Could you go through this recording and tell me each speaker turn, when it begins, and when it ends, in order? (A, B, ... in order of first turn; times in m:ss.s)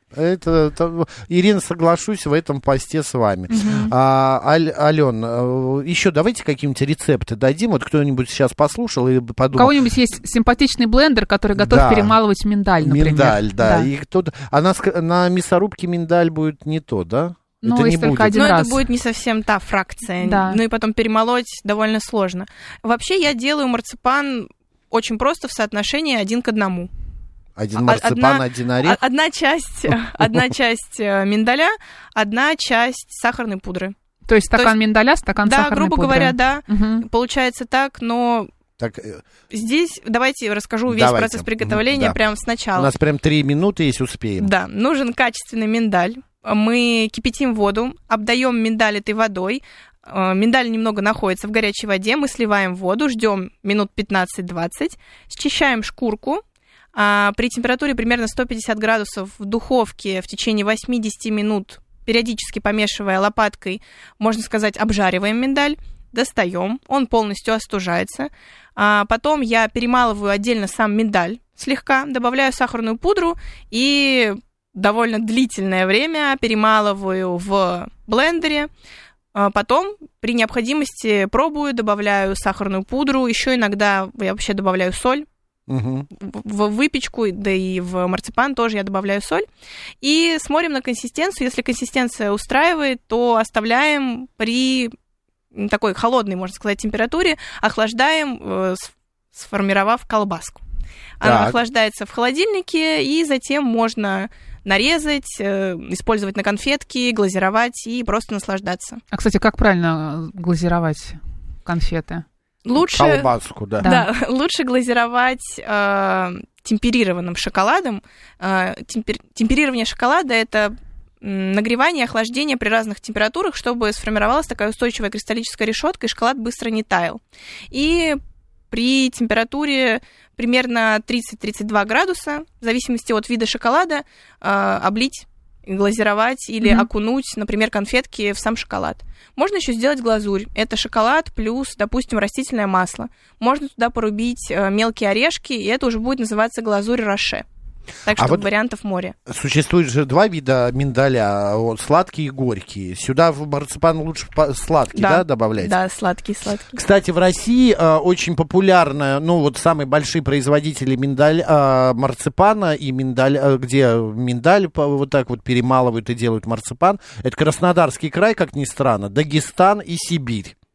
0:00.1-0:09.7 A
0:03.5-0:03.9 B
0:09.6-0:13.9 B
0:11.6-0:12.2 A
0:12.8-0:18.4 A
0:17.6-0:18.8 B
0:18.3-0:26.9 C
0:20.2-0:20.6 B
0:27.6-0:29.0 A
0:27.8-0:33.9 C
0:34.3-0:37.0 B
0:35.4-0:38.5 C
0:38.8-0:39.2 A
0:39.5-0:42.9 C
0:40.9-0:42.2 A
0:42.8-0:44.5 A
0:44.4-0:56.4 C
0:56.9-1:18.7 C
1:19.3-1:25.3 C
1:25.7-1:26.1 A
1:26.2-1:29.4 C
1:30.0-1:34.9 C
1:35.5-1:40.6 C
1:41.2-1:49.0 C
1:41.2-1:41.6 A
1:49.1-1:52.2 B
1:52.6-2:07.2 C
1:52.8-1:53.9 A
1:53.8-1:54.1 B
2:07.7-2:08.2 C
2:08.7-2:27.4 C
2:16.6-2:16.9 B
2:28.0-2:29.2 C
2:28.2-2:28.5 A
2:29.3-2:35.8 A
2:34.9-2:36.8 C
2:36.7-2:50.6 A